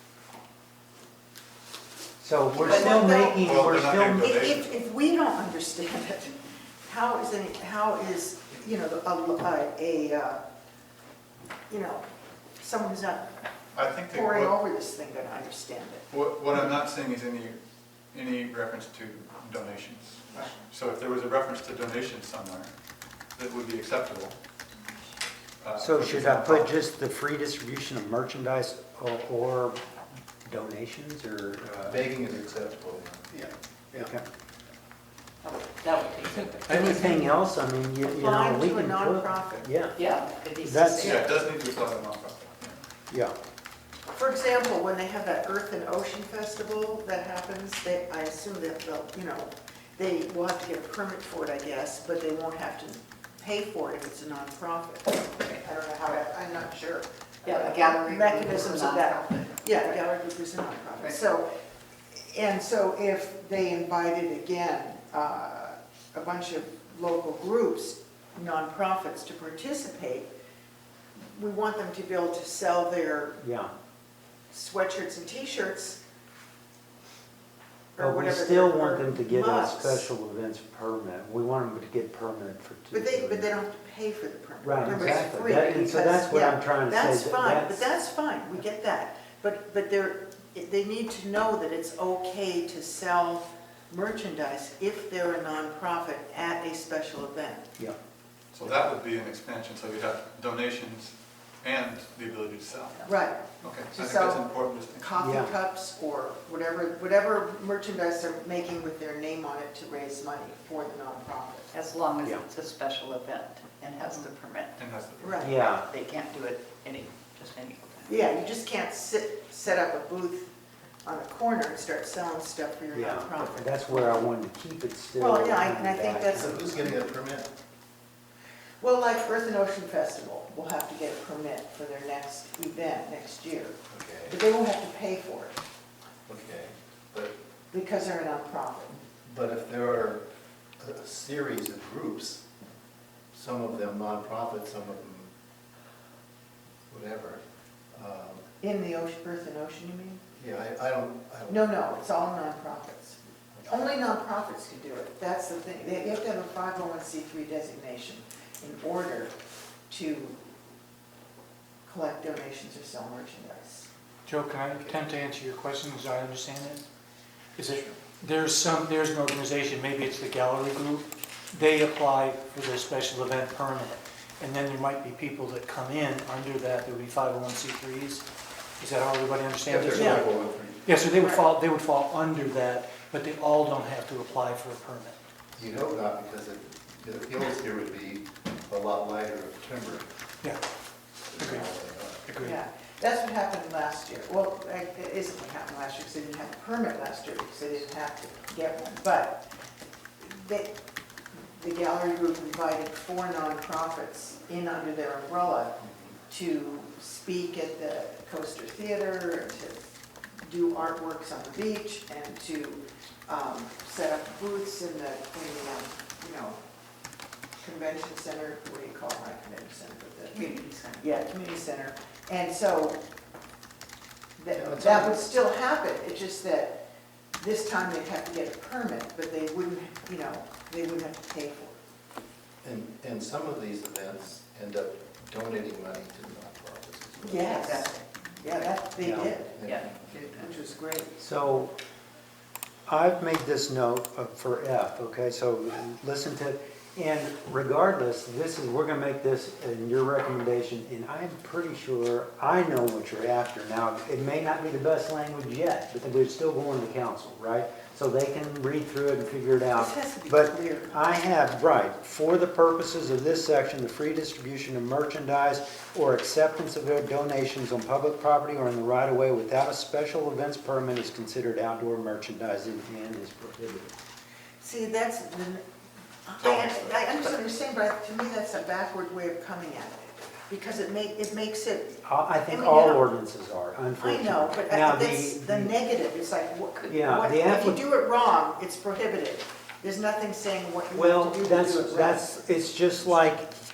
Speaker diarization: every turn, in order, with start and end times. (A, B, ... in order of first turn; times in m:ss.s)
0:02.2-0:04.3 A
0:02.5-0:10.4 B
0:03.3-0:04.7 C
0:11.7-0:12.0 B
0:12.6-0:13.3 B
0:13.7-0:14.6 C
0:14.1-0:16.1 B
0:16.1-0:17.6 C
0:18.1-0:22.7 C
0:23.4-0:24.4 C
0:25.6-0:26.8 C
0:25.8-0:29.8 A
0:30.4-0:32.0 A
0:31.8-0:33.4 D
0:33.9-0:34.2 A
0:35.4-0:37.1 E
0:36.6-0:40.0 A
0:38.0-0:39.7 B
0:40.0-0:41.3 E
0:40.6-0:41.3 A
0:40.9-0:42.8 C
0:43.1-0:43.3 A
0:44.1-1:01.5 B
0:57.5-0:59.5 E
1:02.2-1:10.3 B
1:11.3-1:13.4 B
1:13.4-1:13.7 A
1:14.5-1:16.0 B
1:18.0-1:20.1 B
1:18.0-1:23.5 A
1:22.9-1:37.7 B
1:24.6-1:28.0 A
1:38.5-1:45.3 C
1:43.0-1:51.7 B
1:45.2-1:45.5 A
1:51.7-1:54.7 E
1:54.8-1:55.4 C
1:55.2-1:55.6 B
1:55.4-1:55.9 A
1:55.8-1:58.1 E
1:58.0-2:00.5 B
2:01.0-2:04.2 B
2:02.9-2:06.9 A
2:05.1-2:07.0 B
2:06.4-2:07.5 D
2:08.8-2:13.8 B
2:13.9-2:14.4 D
2:14.3-2:15.6 B
2:16.2-2:17.3 D
2:17.7-2:19.0 B
2:19.2-2:20.2 D
2:20.8-2:22.4 D
2:23.3-2:25.3 D
2:26.9-2:27.4 D
2:27.9-2:28.4 D
2:28.6-2:30.2 B
2:30.3-2:31.6 D
2:31.5-2:39.3 B
2:39.9-2:40.4 B
2:41.8-2:43.9 B
2:44.2-2:46.8 F
2:47.6-2:58.2 F
2:58.8-3:05.2 F
2:59.7-3:00.9 D
2:59.9-3:00.2 B
3:01.1-3:01.4 B
3:05.6-3:10.1 D
3:11.3-3:12.2 D
3:11.4-3:11.7 F
3:12.2-3:12.6 F
3:12.4-3:19.4 B
3:20.2-3:20.7 B
3:21.3-3:25.8 B
3:25.8-3:26.2 D
3:26.3-3:29.8 B
3:30.4-3:36.6 B
3:37.6-3:43.0 B
3:40.5-3:41.0 E
3:44.4-3:46.8 B
3:44.5-3:45.2 D
3:47.4-3:51.8 B
3:52.6-3:57.6 D
3:57.2-3:59.6 B
3:57.7-3:58.0 E
3:59.0-3:59.3 A
3:59.5-4:00.4 D
3:59.7-4:00.1 E
4:00.3-4:01.2 B
4:01.2-4:01.7 A
4:02.9-4:33.9 A
4:19.7-4:21.2 B
4:34.6-4:35.6 B
4:36.2-4:43.0 B
4:36.4-4:37.0 C
4:42.0-4:45.7 A
4:44.0-4:52.2 B
4:46.9-4:47.8 A
4:50.9-4:53.5 A